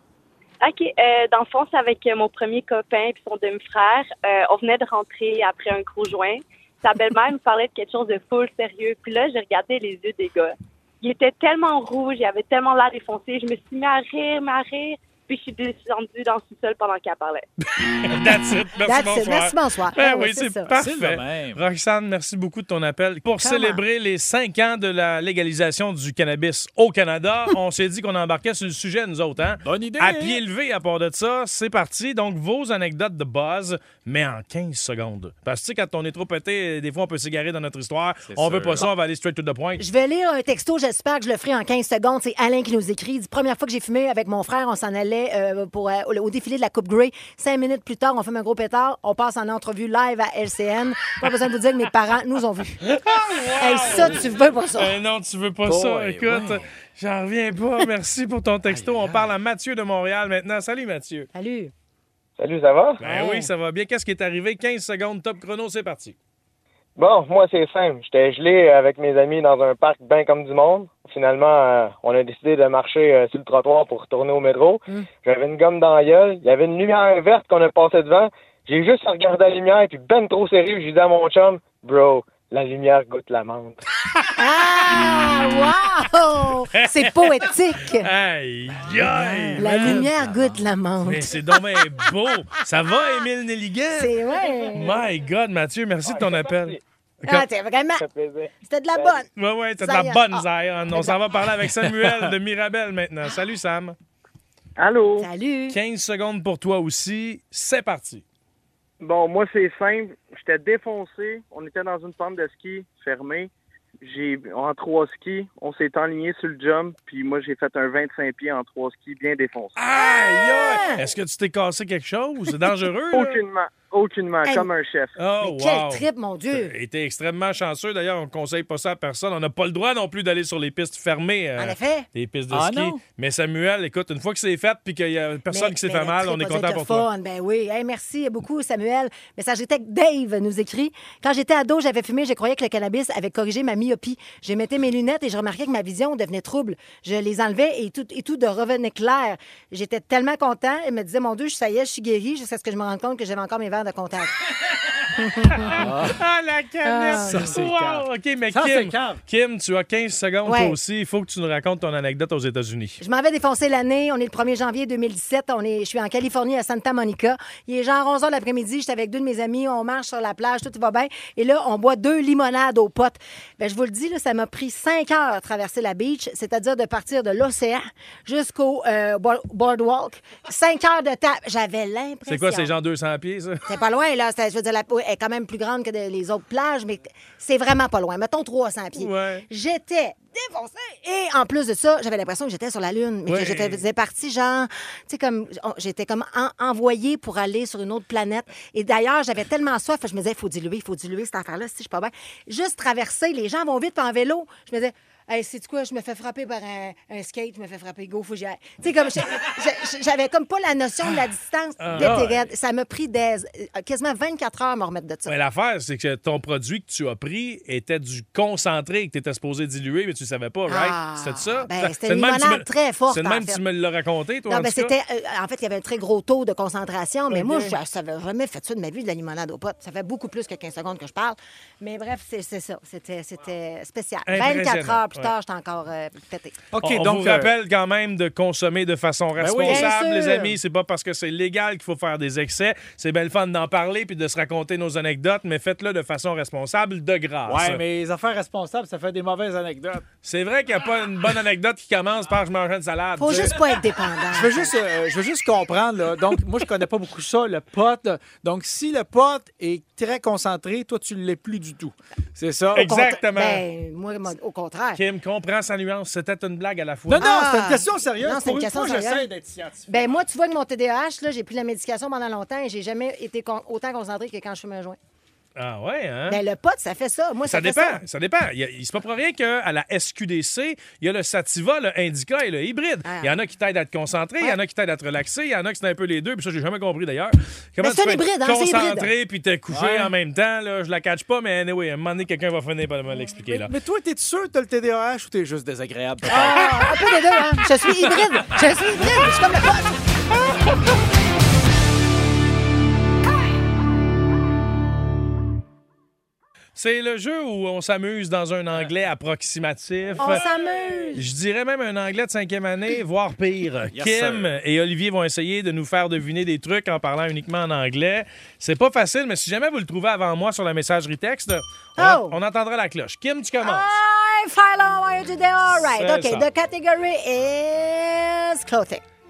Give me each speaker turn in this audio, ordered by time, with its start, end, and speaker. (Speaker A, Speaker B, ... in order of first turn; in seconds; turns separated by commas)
Speaker A: 0.6-17.5, Speaker B: 18.0-39.8, Speaker C: 18.8-20.7, Speaker D: 20.7-21.6, Speaker C: 23.4-23.8, Speaker D: 29.6-30.4, Speaker D: 38.3-38.9, Speaker C: 39.8-52.9, Speaker B: 52.8-54.2, Speaker C: 53.6-55.0, Speaker D: 53.9-54.3, Speaker B: 54.8-61.3, Speaker D: 55.6-56.7, Speaker D: 58.6-59.3, Speaker C: 61.3-61.7, Speaker E: 62.4-63.0, Speaker D: 63.0-63.5, Speaker B: 63.0-66.2, Speaker C: 63.2-63.4, Speaker E: 67.0-83.8, Speaker C: 84.4-88.1, Speaker B: 86.7-90.1, Speaker C: 89.0-93.2, Speaker D: 89.6-90.6, Speaker B: 91.0-94.2, Speaker C: 93.9-95.0, Speaker B: 94.7-97.5, Speaker E: 96.1-96.8, Speaker C: 97.2-98.0, Speaker E: 98.0-99.1, Speaker C: 98.6-99.3, Speaker B: 99.4-104.0, Speaker C: 99.8-101.2, Speaker D: 101.6-102.3, Speaker F: 104.8-105.2, Speaker E: 104.8-105.2, Speaker C: 105.2-105.8, Speaker B: 105.7-108.2, Speaker F: 109.0-113.5, Speaker F: 114.0-119.8, Speaker B: 119.8-123.4, Speaker C: 120.0-121.1, Speaker E: 123.1-123.8, Speaker F: 123.2-125.1, Speaker E: 124.4-124.7, Speaker C: 124.5-124.7, Speaker B: 125.2-137.1, Speaker C: 125.4-126.7, Speaker C: 131.6-132.1, Speaker D: 132.5-133.0, Speaker C: 135.5-154.4, Speaker C: 155.1-155.8, Speaker B: 155.5-163.0, Speaker D: 155.7-156.2, Speaker C: 156.8-157.5, Speaker D: 157.1-159.2, Speaker C: 160.4-160.8, Speaker C: 163.0-182.7, Speaker B: 182.3-183.6, Speaker C: 183.7-215.3, Speaker B: 188.9-189.5, Speaker B: 193.3-193.8, Speaker B: 211.8-212.5, Speaker D: 212.0-212.2, Speaker B: 215.3-224.9, Speaker C: 220.7-223.6, Speaker C: 224.5-236.6, Speaker B: 227.3-227.8, Speaker B: 234.3-235.3, Speaker D: 236.7-237.5, Speaker B: 236.8-247.8, Speaker D: 239.4-240.5, Speaker C: 239.7-240.4, Speaker D: 247.5-250.1, Speaker B: 250.2-253.6, Speaker C: 253.2-254.7, Speaker D: 254.3-263.1, Speaker B: 262.8-263.6, Speaker C: 262.8-265.0, Speaker B: 265.0-267.3, Speaker D: 267.1-270.2, Speaker C: 267.2-269.3, Speaker C: 269.9-275.0, Speaker B: 275.6-276.4, Speaker C: 276.3-278.0, Speaker B: 277.5-293.7, Speaker C: 283.1-283.4, Speaker C: 287.8-289.1, Speaker D: 289.7-290.1, Speaker D: 293.3-296.8, Speaker C: 296.3-300.0, Speaker D: 298.0-298.6, Speaker B: 306.8-310.4, Speaker C: 310.2-311.3, Speaker D: 310.3-311.1, Speaker B: 311.1-323.9, Speaker D: 313.9-314.5, Speaker C: 322.0-322.4, Speaker C: 323.6-329.0, Speaker B: 325.7-326.5